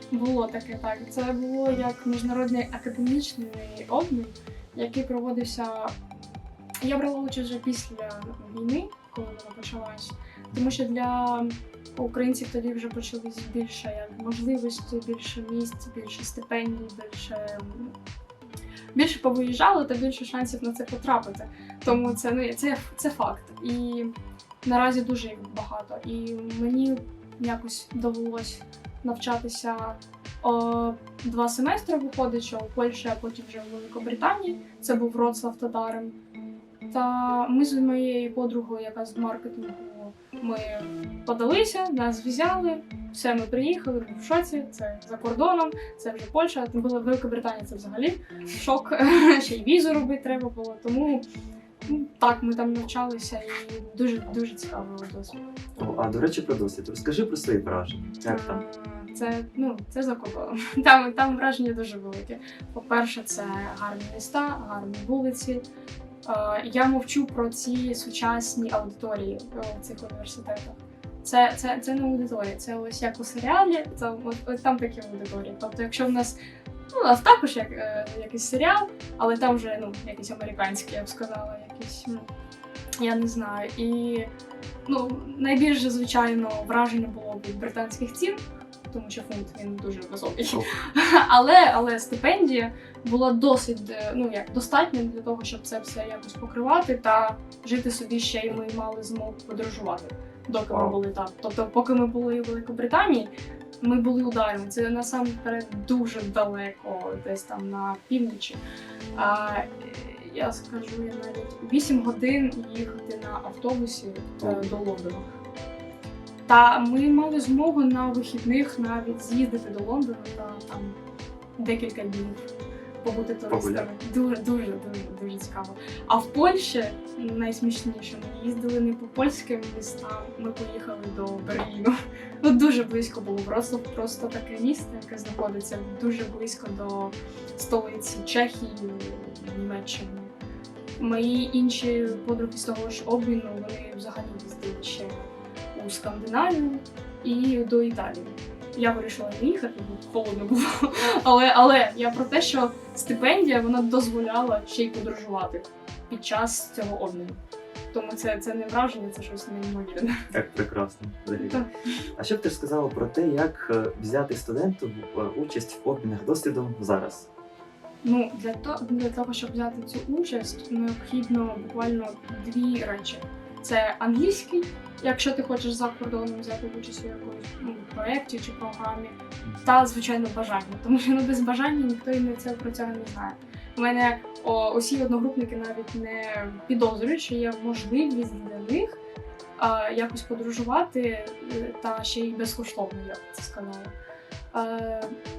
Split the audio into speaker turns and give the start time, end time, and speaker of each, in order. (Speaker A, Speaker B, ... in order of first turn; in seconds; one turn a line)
Speaker A: 0.1-5.9
Speaker A: 6.8-17.9
Speaker A: 18.9-24.1
Speaker A: 24.6-36.1
Speaker A: 36.9-51.2
Speaker A: 51.9-55.4
Speaker B: 55.8-58.6
Speaker A: 58.3-65.6
Speaker A: 66.2-76.4
Speaker A: 76.9-82.3
Speaker A: 83.0-84.3
Speaker A: 84.9-88.4
Speaker A: 88.9-108.6
Speaker B: 100.7-101.0
Speaker A: 109.2-115.3
Speaker B: 114.4-114.8
Speaker A: 116.5-121.0
Speaker A: 121.6-122.5
Speaker A: 123.0-140.3
Speaker B: 123.5-123.9
Speaker A: 141.0-157.4
Speaker A: 157.9-160.1
Speaker B: 160.3-161.7
Speaker A: 161.4-161.7
Speaker B: 162.2-167.3
Speaker A: 168.0-189.0
Speaker A: 189.6-193.9
Speaker A: 194.5-195.2